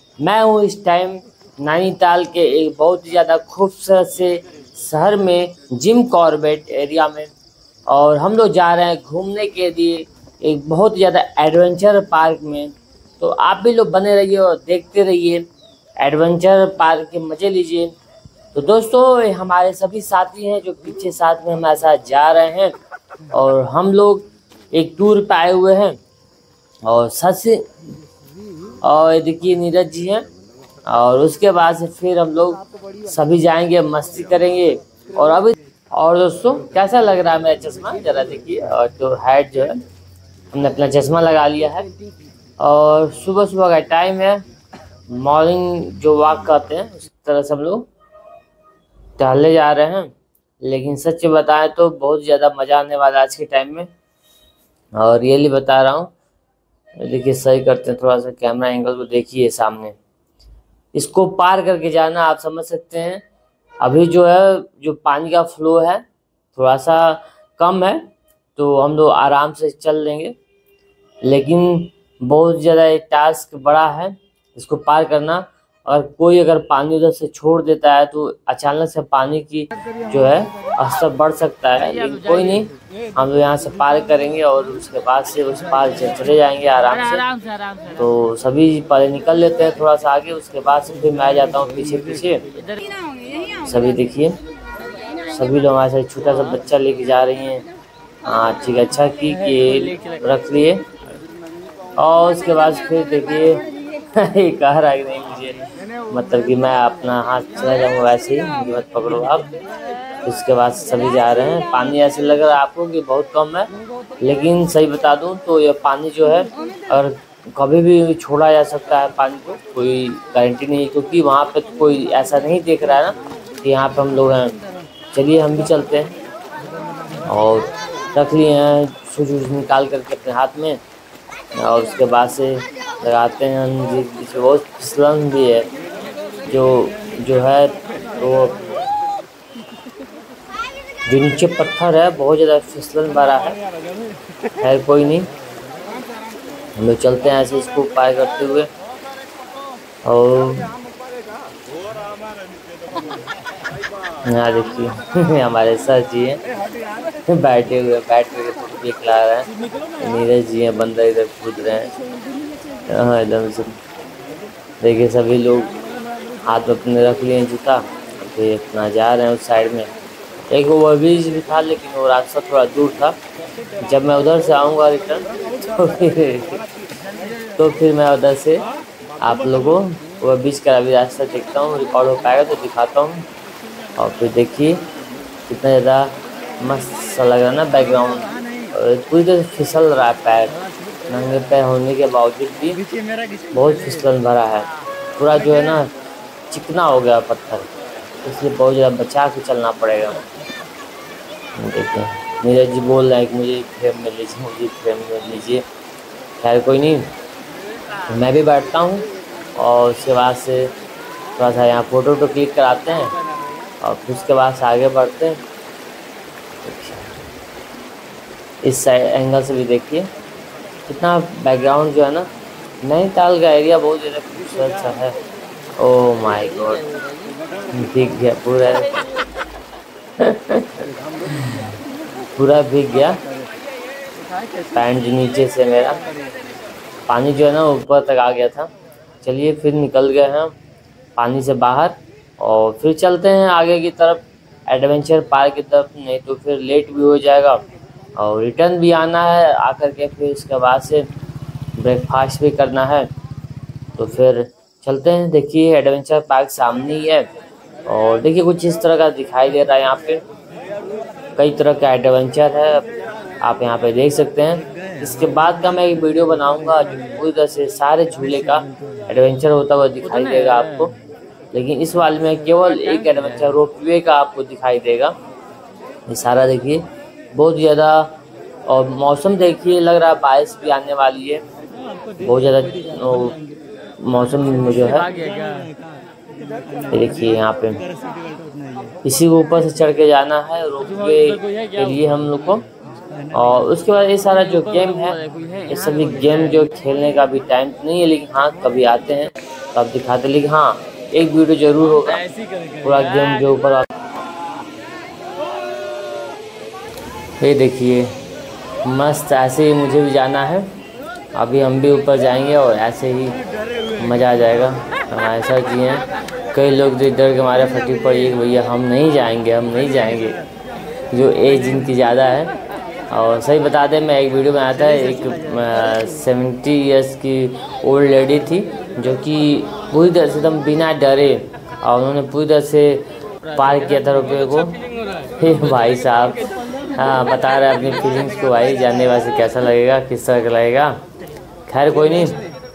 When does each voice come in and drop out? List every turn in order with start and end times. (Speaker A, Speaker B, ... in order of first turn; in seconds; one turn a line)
Speaker A: 0.2-7.3
Speaker A: 7.9-15.4
Speaker A: 16.0-17.9
Speaker A: 18.5-22.7
Speaker A: 23.3-26.0
Speaker A: 26.8-27.7
Speaker A: 28.8-30.2
Speaker A: 30.9-39.8
Speaker A: 40.5-41.9
Speaker A: 42.6-44.4
Speaker A: 45.1-47.9
Speaker A: 49.2-50.1
Speaker A: 50.6-53.9
Speaker A: 55.0-56.1
Speaker A: 57.0-59.9
Speaker A: 60.9-63.2
Speaker A: 63.8-66.0
Speaker A: 66.5-68.0
Speaker A: 68.5-70.3
Speaker A: 71.2-87.3
Speaker A: 87.9-92.4
Speaker A: 93.6-94.4
Speaker A: 95.2-97.6
Speaker A: 98.2-100.8
Speaker A: 102.0-103.6
Speaker A: 104.1-109.5
Speaker A: 110.2-124.5
Speaker A: 125.1-126.1
Speaker A: 127.2-130.8
Speaker A: 131.6-135.7
Speaker A: 136.5-138.6
Speaker A: 141.1-143.6
Speaker A: 144.6-145.3
Speaker A: 146.8-148.7
Speaker A: 150.0-150.7
Speaker A: 154.2-156.4
Speaker A: 157.3-161.9
Speaker A: 162.9-163.7
Speaker A: 164.8-165.7
Speaker A: 166.4-169.9
Speaker A: 170.5-173.2
Speaker A: 173.8-176.6
Speaker A: 177.6-178.7
Speaker A: 179.2-183.2
Speaker A: 184.0-184.8
Speaker A: 185.5-190.5
Speaker A: 191.1-192.8
Speaker A: 193.5-195.9
Speaker A: 196.5-197.7
Speaker A: 198.2-200.2
Speaker A: 201.6-205.6
Speaker A: 206.4-207.1
Speaker A: 208.1-210.7
Speaker A: 211.4-213.1
Speaker A: 213.8-215.4
Speaker A: 216.6-217.1
Speaker A: 218.6-220.1
Speaker A: 220.9-222.3
Speaker A: 222.8-225.2
Speaker A: 225.8-226.8
Speaker A: 227.7-228.9
Speaker A: 230.2-231.7
Speaker A: 232.3-233.2
Speaker A: 234.7-236.0
Speaker A: 237.1-238.7
Speaker A: 239.2-240.5
Speaker A: 241.2-247.6
Speaker A: 248.2-251.0
Speaker A: 251.8-253.1
Speaker A: 254.0-257.3
Speaker A: 257.9-260.2
Speaker A: 261.4-262.8
Speaker A: 263.4-270.9
Speaker A: 271.5-275.1
Speaker A: 276.1-278.1
Speaker A: 278.7-281.4
Speaker A: 282.2-283.4
Speaker A: 284.0-285.1
Speaker A: 286.9-287.8
Speaker A: 289.0-292.6
Speaker A: 293.3-302.2
Speaker A: 302.8-303.9
Speaker A: 307.4-308.1
Speaker A: 308.8-310.7
Speaker A: 311.3-313.4
Speaker A: 314.0-320.4
Speaker A: 321.1-322.5
Speaker A: 323.1-334.8
Speaker A: 335.4-341.0
Speaker A: 341.7-342.4